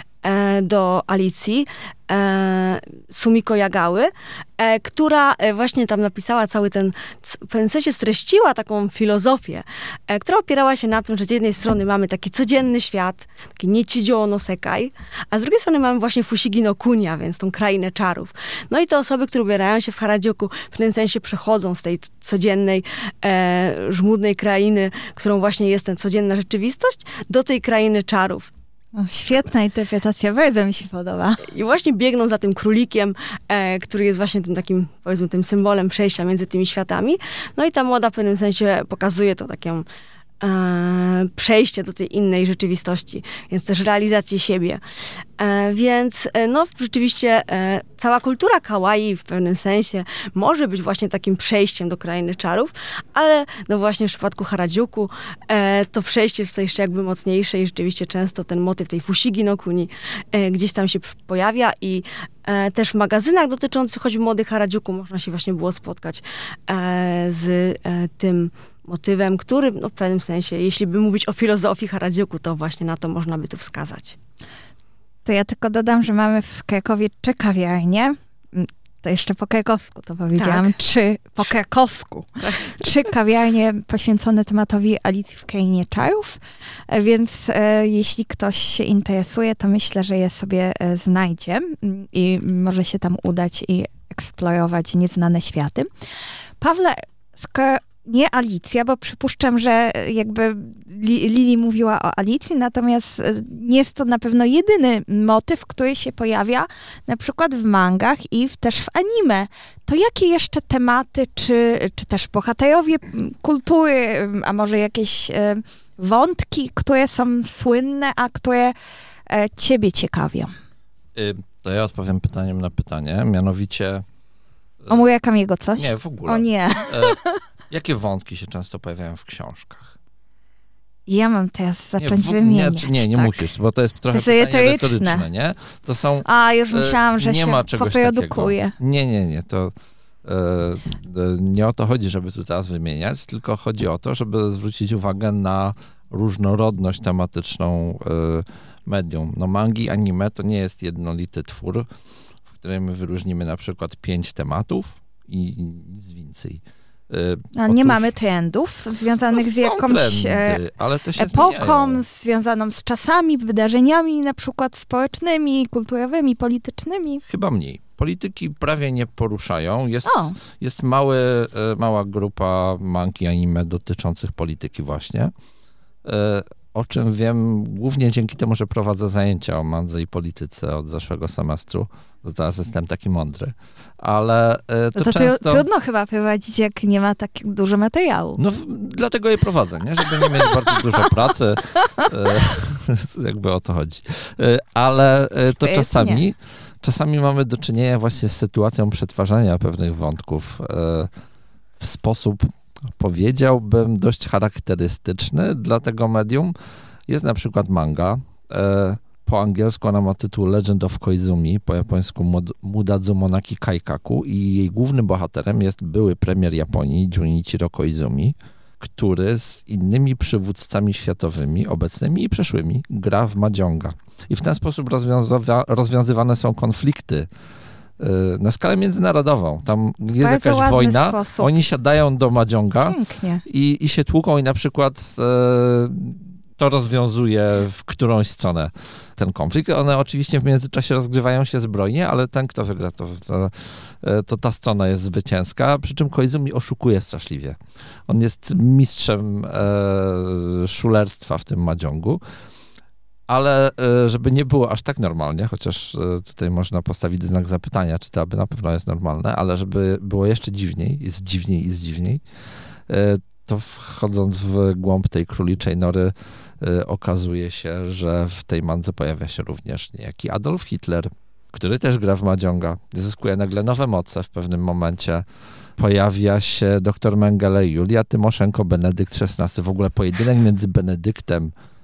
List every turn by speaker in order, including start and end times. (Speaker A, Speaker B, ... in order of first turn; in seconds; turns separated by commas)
Speaker A: 0.2-28.5, Speaker B: 28.9-31.4, Speaker A: 31.4-39.9, Speaker A: 40.4-44.8, Speaker A: 45.4-74.2, Speaker B: 75.2-95.9, Speaker A: 80.4-80.7, Speaker A: 82.4-82.9, Speaker B: 96.6-118.8, Speaker B: 119.3-120.5, Speaker C: 121.2-124.0, Speaker B: 124.9-127.3, Speaker C: 125.8-127.2, Speaker C: 127.7-129.9, Speaker B: 131.1-133.5, Speaker C: 132.0-139.7, Speaker B: 134.1-135.2, Speaker B: 136.2-138.7, Speaker C: 140.2-151.9, Speaker C: 152.5-158.1, Speaker B: 157.6-160.6, Speaker C: 159.3-162.0, Speaker B: 161.2-167.2, Speaker C: 167.3-175.3, Speaker B: 170.1-170.4, Speaker C: 176.0-185.7, Speaker B: 185.0-188.4, Speaker C: 188.4-201.1, Speaker B: 190.2-190.5, Speaker B: 191.8-192.1, Speaker B: 195.5-196.2, Speaker C: 201.8-206.6, Speaker C: 207.1-227.3, Speaker C: 228.0-252.2, Speaker B: 230.2-231.5, Speaker B: 232.8-233.4, Speaker C: 253.3-262.2, Speaker C: 262.9-275.2, Speaker C: 275.8-281.5